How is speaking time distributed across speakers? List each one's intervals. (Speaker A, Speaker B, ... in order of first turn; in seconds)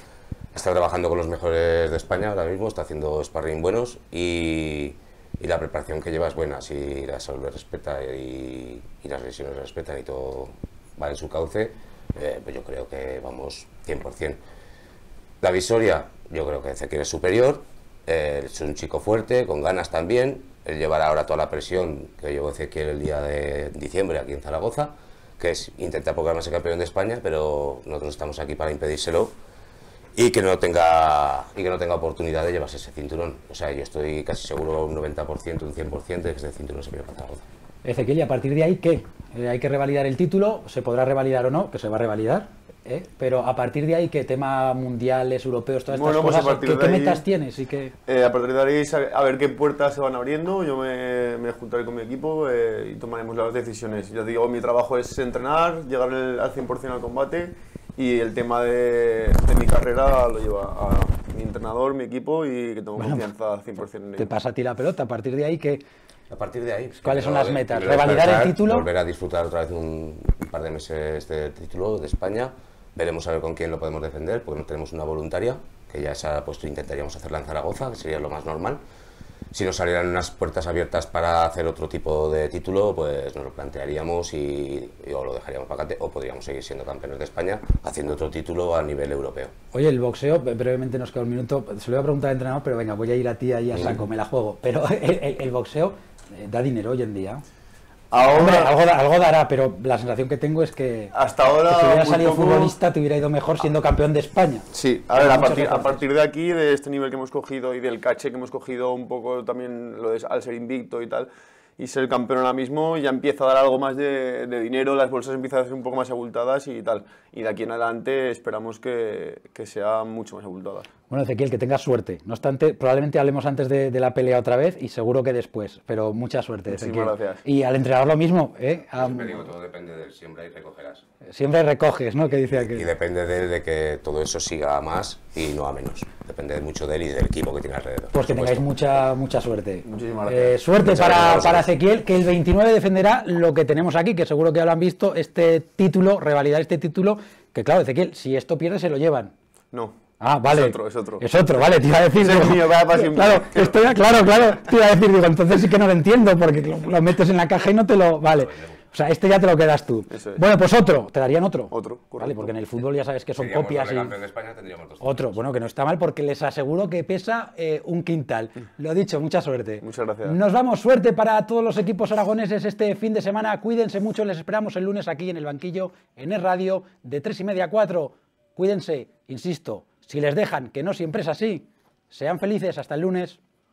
Speaker A: 0.5-14.4, 15.4-29.3, 30.1-37.4, 66.3-78.8, 79.5-89.5, 128.9-131.0, 132.7-138.7, 140.8-141.7, 158.3-158.8, 163.4-165.4
Speaker B: 37.8-47.9, 63.0-63.3, 64.2-65.8, 67.0-68.9, 89.7-97.4, 98.2-106.0, 121.1-129.4, 131.2-132.9, 138.1-149.3, 150.2-164.1, 165.0-183.4
Speaker C: 45.9-47.2, 48.1-64.3, 98.1-98.7, 101.1-102.7, 104.7-120.9, 126.7-127.4, 139.9-140.6, 149.7-150.0, 150.5-151.3, 152.1-153.8, 160.1-160.4, 161.7-162.5, 169.8-170.3